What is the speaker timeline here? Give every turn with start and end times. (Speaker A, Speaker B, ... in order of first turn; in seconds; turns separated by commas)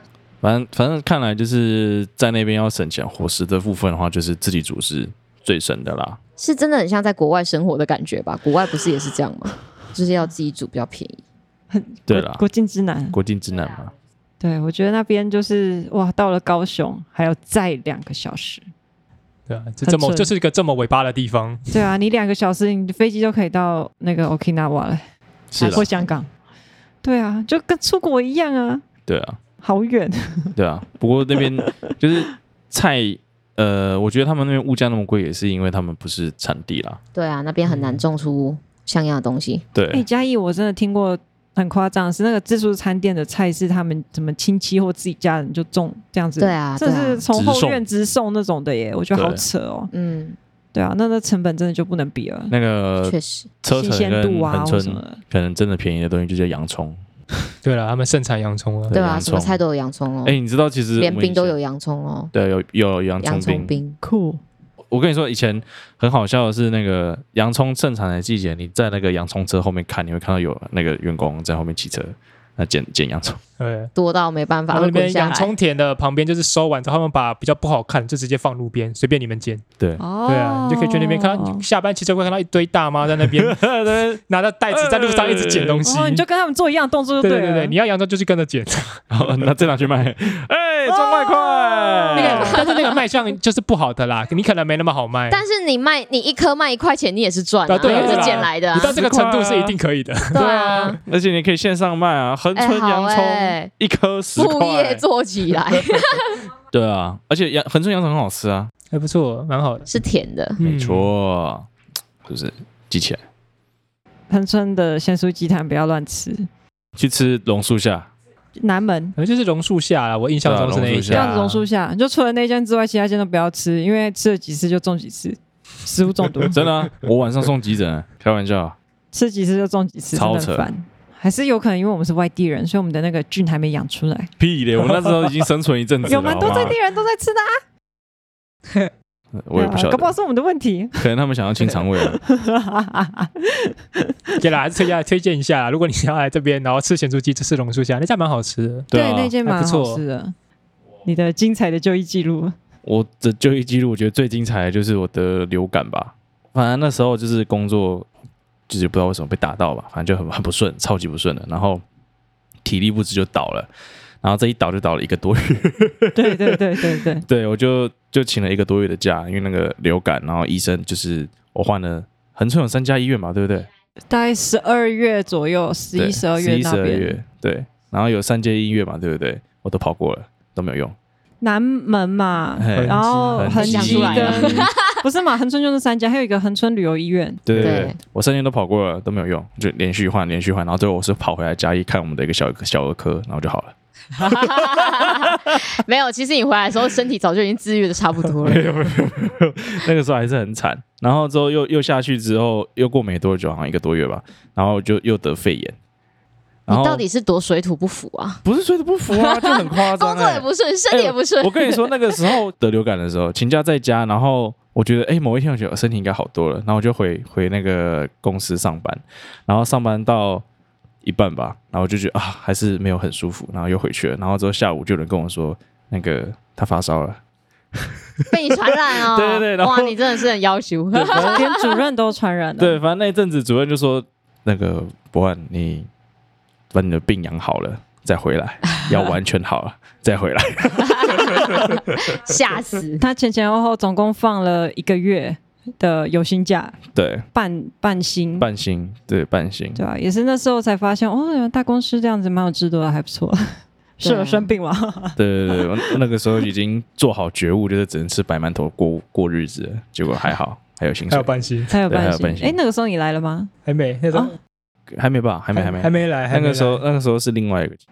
Speaker A: 0.4-6.2, Speaker B: 6.4-11.2, Speaker C: 11.7-13.2, Speaker A: 12.1-12.4, Speaker A: 13.1-13.9, Speaker C: 14.4-18.7, Speaker D: 19.5-21.7, Speaker C: 19.8-20.3, Speaker C: 21.7-25.0, Speaker A: 25.5-25.9, Speaker B: 25.6-26.1, Speaker C: 25.6-26.3, Speaker C: 27.0-28.8, Speaker A: 29.1-29.4, Speaker C: 29.6-30.5, Speaker A: 30.5-37.0, Speaker B: 37.1-39.6, Speaker A: 39.7-40.0, Speaker C: 39.9-49.9, Speaker B: 46.4-47.2, Speaker A: 47.3-47.8, Speaker A: 49.1-49.4, Speaker B: 49.9-50.4, Speaker C: 50.7-52.5, Speaker A: 52.5-57.0, Speaker B: 53.0-53.5, Speaker C: 53.7-55.2, Speaker D: 57.6-59.0, Speaker A: 58.9-59.6, Speaker B: 58.9-60.4, Speaker A: 60.2-61.5, Speaker B: 61.0-62.3, Speaker A: 62.3-63.7, Speaker B: 63.2-64.0, Speaker C: 64.0-64.4, Speaker A: 64.9-73.4, Speaker D: 73.6-73.9, Speaker B: 73.9-75.5, Speaker D: 74.7-79.6, Speaker C: 80.0-81.6, Speaker D: 80.2-83.6, Speaker A: 83.2-85.8, Speaker D: 84.3-86.2, Speaker C: 85.8-87.7, Speaker D: 87.2-89.0, Speaker A: 89.1-92.6, Speaker C: 90.8-93.0, Speaker D: 92.1-95.4, Speaker B: 95.3-99.0, Speaker D: 97.7-101.0, Speaker A: 97.8-99.8, Speaker B: 100.3-101.0, Speaker A: 101.0-105.0, Speaker B: 102.5-103.7, Speaker B: 104.3-106.4, Speaker A: 106.7-108.7, Speaker D: 108.9-109.9, Speaker B: 109.9-110.6, Speaker D: 110.6-111.1, Speaker A: 110.6-111.7, Speaker A: 112.2-113.2, Speaker C: 114.3-116.5, Speaker A: 117.0-118.1, Speaker C: 118.6-119.1, Speaker D: 119.2-121.7, Speaker A: 120.4-121.3, Speaker C: 121.1-126.6, Speaker A: 126.5-128.8, Speaker C: 129.1-134.3, Speaker A: 130.1-130.7, Speaker A: 134.4-136.8, Speaker C: 136.1-137.6, Speaker A: 139.3-140.1, Speaker C: 139.5-141.1, Speaker A: 140.9-142.2, Speaker C: 141.6-144.4, Speaker D: 144.4-148.9, Speaker A: 148.9-149.3, Speaker C: 148.9-150.3, Speaker D: 149.4-150.0, Speaker C: 151.0-152.5, Speaker A: 152.8-158.1, Speaker A: 158.7-161.8, Speaker A: 162.6-163.7, Speaker A: 164.2-173.7, Speaker C: 166.1-167.2, Speaker C: 174.1-177.2, Speaker A: 175.9-180.9, Speaker C: 181.4-187.4, Speaker A: 182.6-184.7, Speaker D: 182.7-184.5, Speaker B: 183.6-184.8, Speaker A: 187.4-193.7, Speaker B: 187.6-188.0, Speaker B: 194.2-198.7, Speaker A: 194.5-195.3, Speaker A: 198.4-205.8, Speaker A: 206.7-207.0, Speaker B: 206.7-208.4, Speaker A: 208.4-220.4, Speaker B: 209.1-212.1, Speaker A: 221.0-227.2, Speaker A: 227.7-228.2, Speaker B: 228.3-231.6, Speaker A: 228.9-230.2, Speaker A: 230.9-231.4, Speaker C: 231.1-232.8, Speaker A: 232.6-235.9, Speaker A: 236.7-241.8, Speaker B: 241.0-243.0, Speaker C: 243.0-246.8, Speaker A: 246.9-247.2, Speaker C: 247.3-248.5, Speaker A: 248.4-249.8, Speaker C: 249.8-256.0, Speaker B: 254.0-254.5, Speaker A: 255.2-261.3, Speaker D: 261.1-261.7, Speaker C: 261.7-263.5, Speaker A: 261.9-262.6, Speaker D: 263.6-264.4, Speaker A: 264.9-267.8, Speaker D: 265.5-266.8